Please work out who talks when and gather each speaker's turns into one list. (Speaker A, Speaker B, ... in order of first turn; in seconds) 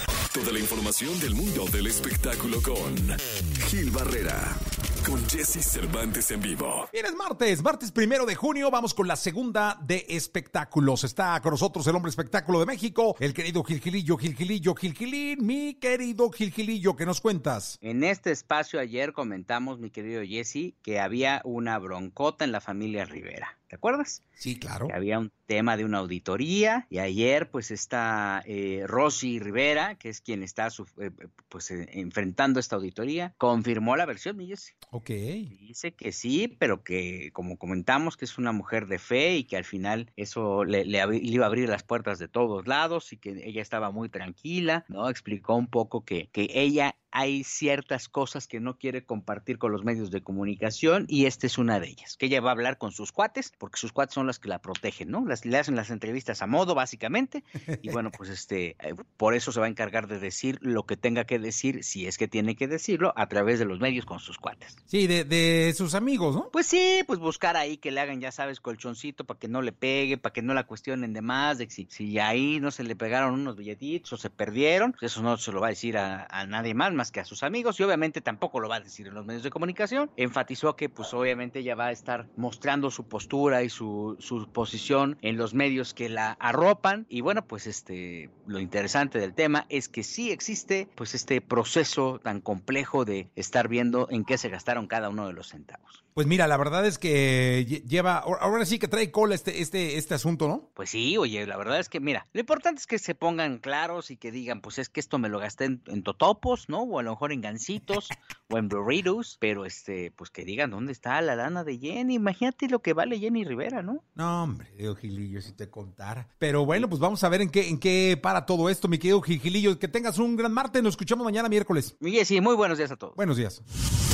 Speaker A: 0.3-6.9
Speaker B: 6.9-17.8, 24.4-24.9, 34.9-35.5, 64.9-66.5, 96.2-100.7, 114.2-121.9, 123.2-123.6
Speaker C: 17.8-24.2, 24.9-34.8, 35.5-64.8, 66.5-96.0, 100.8-114.0, 122.0-123.2